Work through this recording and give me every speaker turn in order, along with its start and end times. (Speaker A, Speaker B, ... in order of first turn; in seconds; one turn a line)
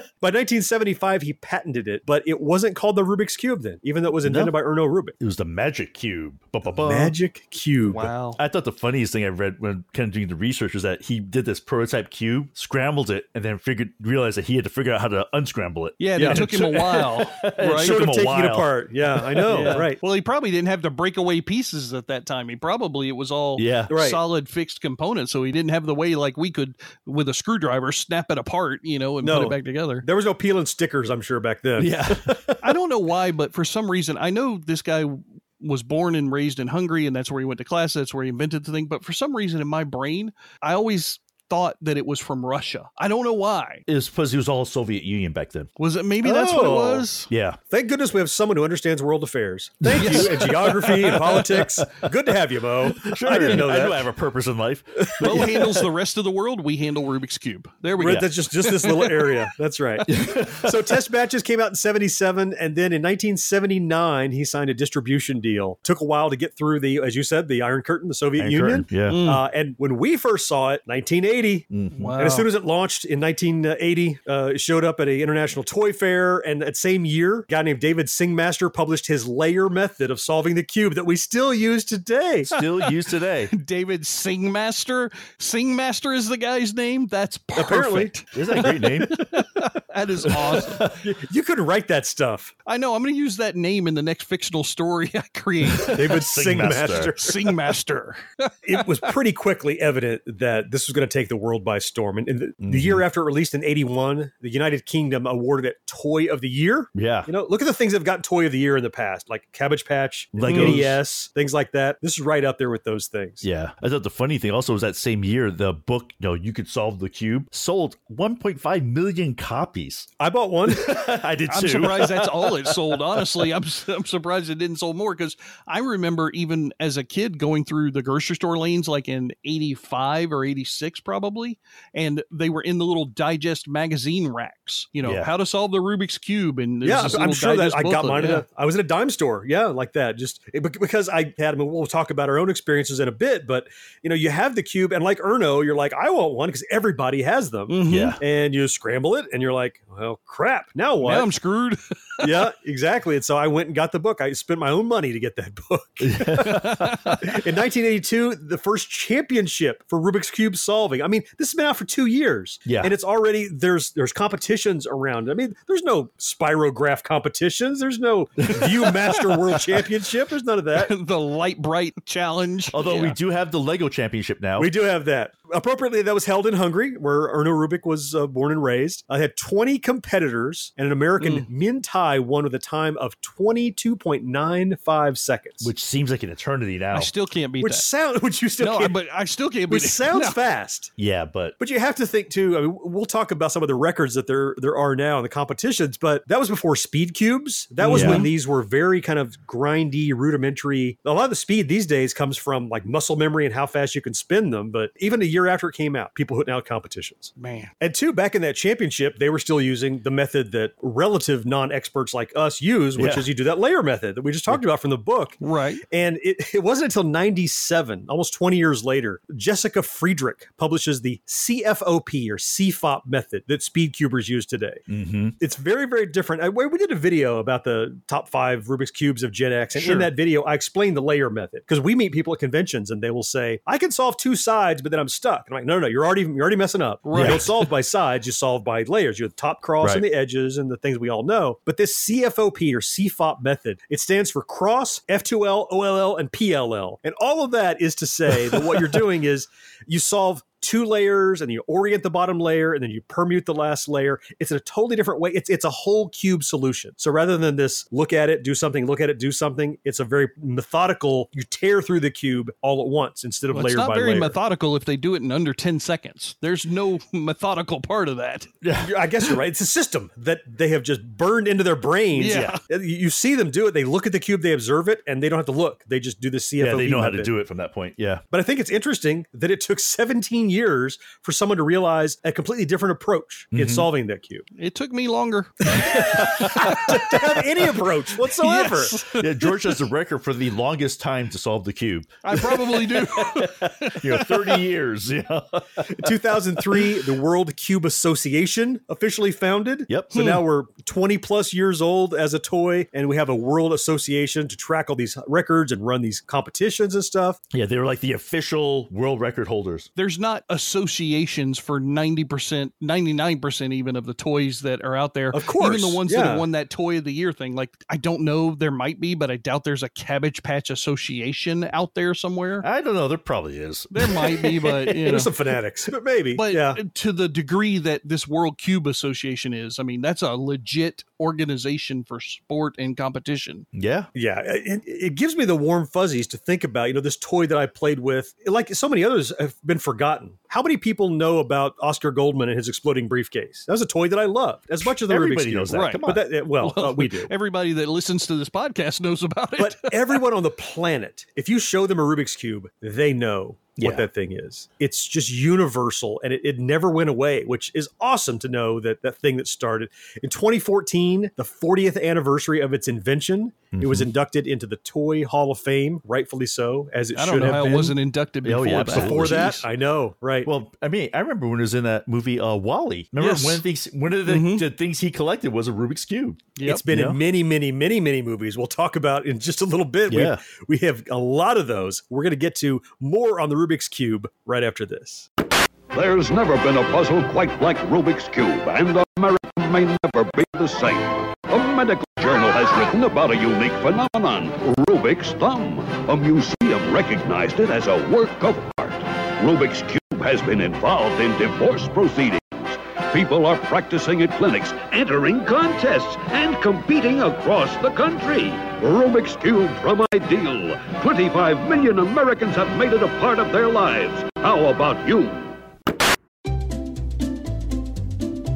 Speaker A: 0.2-5.2
Speaker B: 4.2-4.5
Speaker B: 5.2-7.1
Speaker A: 6.7-8.1
Speaker C: 7.9-8.4
Speaker B: 8.3-19.8
Speaker C: 16.0-18.0
Speaker A: 16.1-16.4
Speaker A: 17.8-20.0
Speaker C: 19.5-30.0
Speaker B: 23.6-23.9
Speaker A: 23.9-24.2
Speaker A: 29.2-32.1
Speaker B: 31.8-32.6
Speaker C: 32.6-43.8
Speaker B: 43.9-45.7
Speaker C: 45.8-47.3
Speaker A: 46.2-47.0
Speaker B: 47.3-47.6
Speaker A: 47.7-54.1
Speaker B: 49.8-51.9
Speaker C: 49.9-51.4
Speaker B: 52.8-55.9
Speaker C: 55.2-59.2
Speaker B: 58.0-59.0
Speaker A: 58.0-71.7
Speaker B: 60.1-60.9
Speaker B: 68.4-69.2
Speaker C: 69.0-69.4
Speaker B: 71.7-72.1
Speaker C: 71.9-72.5
Speaker A: 72.2-82.5
Speaker B: 82.4-83.5
Speaker C: 82.6-82.9
Speaker C: 83.5-90.9
Speaker A: 87.5-88.1
Speaker B: 88.3-89.2
Speaker B: 90.3-91.0
Speaker A: 91.0-92.5
Speaker C: 92.7-98.8
Speaker B: 95.8-97.1
Speaker A: 95.9-97.4
Speaker A: 98.6-113.4
Speaker B: 102.6-103.0
Speaker B: 106.9-107.3
Speaker B: 110.3-111.0
Speaker C: 110.5-110.9
Speaker B: 113.4-120.1
Speaker A: 120.2-121.0
Speaker B: 120.7-123.5
Speaker C: 121.5-138.4
Speaker B: 135.0-135.3
Speaker A: 136.8-151.3
Speaker C: 147.7-148.2
Speaker B: 147.9-148.2
Speaker C: 151.0-152.3
Speaker A: 152.2-156.7
Speaker B: 156.0-157.3
Speaker C: 156.4-157.1
Speaker A: 157.2-170.9
Speaker B: 162.6-162.9
Speaker C: 170.8-173.2
Speaker B: 172.7-174.7
Speaker A: 174.6-185.7
Speaker C: 181.2-181.5
Speaker B: 185.6-187.1
Speaker C: 186.9-187.9
Speaker A: 187.6-188.9
Speaker C: 188.6-190.4
Speaker A: 189.7-190.9
Speaker B: 191.0-191.6
Speaker A: 191.6-215.4
Speaker C: 197.8-198.3
Speaker B: 197.9-198.3
Speaker C: 207.4-207.7
Speaker B: 212.9-213.3
Speaker C: 215.4-215.8
Speaker A: 215.9-224.8
Speaker B: 224.9-225.3
Speaker A: 225.4-264.4
Speaker C: 229.7-230.1
Speaker C: 237.0-237.5
Speaker B: 237.1-237.4
Speaker B: 248.4-248.7
Speaker C: 263.5-268.5
Speaker B: 268.6-269.4
Speaker A: 268.8-277.3
Speaker C: 272.1-272.6
Speaker B: 272.3-272.6
Speaker B: 276.6-278.2
Speaker A: 278.3-284.4
Speaker B: 283.5-283.9
Speaker C: 284.6-287.1
Speaker B: 285.7-287.0
Speaker A: 285.7-289.0
Speaker C: 288.4-289.6
Speaker B: 289.1-296.1
Speaker C: 292.2-294.6
Speaker A: 296.0-307.4
Speaker B: 299.9-300.1
Speaker C: 300.1-300.4
Speaker B: 307.5-309.9
Speaker C: 309.9-322.6
Speaker A: 315.3-316.4
Speaker B: 322.6-325.1
Speaker C: 323.9-325.3
Speaker A: 325.0-326.8
Speaker C: 326.4-333.6
Speaker B: 333.7-334.1
Speaker A: 334.1-347.3
Speaker B: 344.8-346.3
Speaker C: 345.7-346.1
Speaker C: 346.6-350.2
Speaker A: 349.6-368.0
Speaker B: 353.8-354.1
Speaker B: 363.7-364.1
Speaker C: 367.1-369.6
Speaker B: 368.4-369.6
Speaker A: 368.9-370.5
Speaker B: 370.4-377.2
Speaker C: 373.2-373.6
Speaker C: 374.2-374.6
Speaker C: 376.6-376.8
Speaker A: 376.6-385.3
Speaker B: 380.1-380.4
Speaker D: 385.9-415.5